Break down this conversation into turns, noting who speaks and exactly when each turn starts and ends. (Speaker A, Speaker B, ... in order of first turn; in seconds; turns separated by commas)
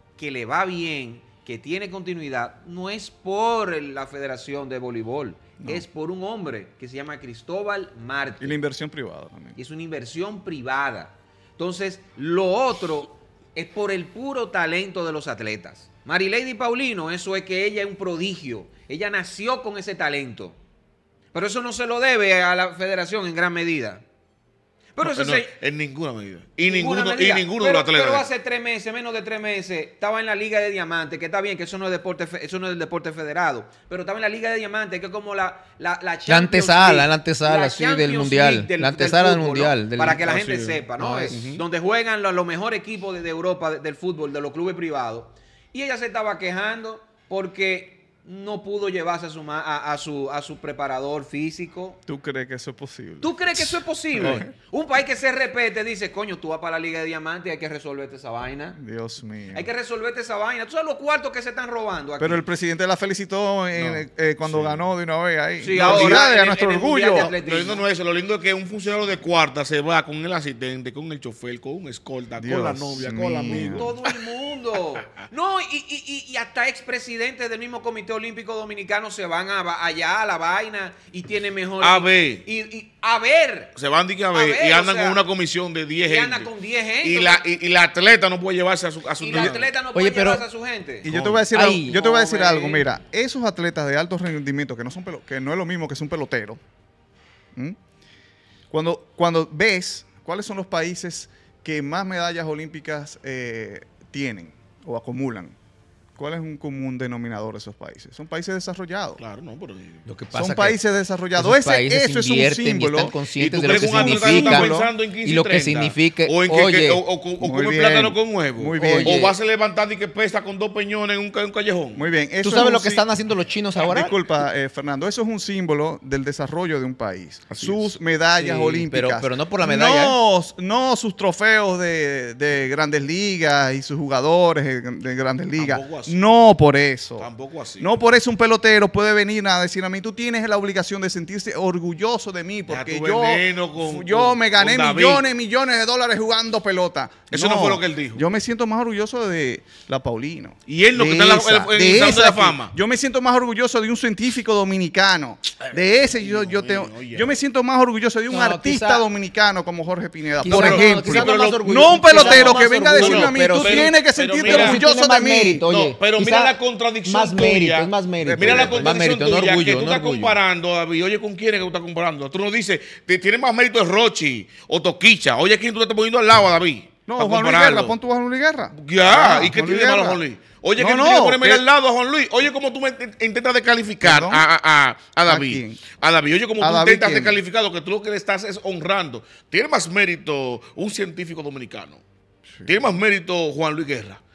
Speaker A: 0.2-8.6, Speaker B: 5.6-5.8, Speaker B: 8.4-9.6, Speaker A: 9.6-20.6, Speaker A: 21.3-24.0, Speaker A: 24.9-25.5, Speaker C: 25.0-28.3, Speaker A: 26.6-52.0, Speaker D: 36.3-40.2, Speaker C: 40.1-41.6, Speaker D: 41.0-41.4, Speaker B: 52.1-54.5, Speaker A: 53.2-58.8, Speaker B: 58.8-59.7, Speaker A: 59.5-62.4, Speaker B: 62.2-67.3, Speaker C: 63.7-64.8, Speaker A: 65.6-67.8, Speaker C: 65.7-66.3, Speaker C: 67.2-74.3, Speaker B: 72.4-73.9, Speaker A: 73.4-83.7, Speaker C: 81.8-82.4, Speaker C: 83.8-86.5, Speaker A: 84.3-85.2, Speaker A: 86.0-87.4, Speaker C: 87.0-89.8, Speaker A: 89.2-91.1, Speaker D: 89.9-90.4, Speaker B: 91.0-96.6, Speaker C: 91.1-91.4, Speaker D: 91.5-92.0, Speaker A: 91.8-92.9, Speaker B: 98.7-105.5, Speaker B: 106.2-109.2, Speaker C: 109.2-110.0, Speaker D: 110.0-110.8, Speaker B: 110.3-114.9, Speaker D: 111.3-114.7, Speaker C: 113.3-122.1, Speaker D: 115.2-117.0, Speaker B: 117.4-119.2, Speaker D: 118.7-119.3, Speaker B: 122.0-123.0, Speaker D: 122.4-124.2, Speaker B: 123.8-165.7, Speaker C: 127.5-127.9, Speaker D: 128.3-130.2, Speaker C: 135.5-136.2, Speaker C: 137.2-137.9, Speaker C: 142.7-145.2, Speaker C: 147.3-148.2, Speaker C: 150.7-152.7, Speaker C: 156.0-157.3, Speaker D: 158.3-159.0, Speaker D: 160.4-170.4, Speaker C: 160.4-164.8, Speaker C: 165.6-177.9, Speaker B: 168.2-168.9, Speaker B: 177.1-180.2, Speaker C: 178.8-192.0, Speaker B: 180.8-181.6, Speaker B: 184.0-184.4, Speaker B: 185.2-185.9, Speaker B: 186.6-187.4, Speaker B: 192.5-192.9, Speaker C: 192.7-194.2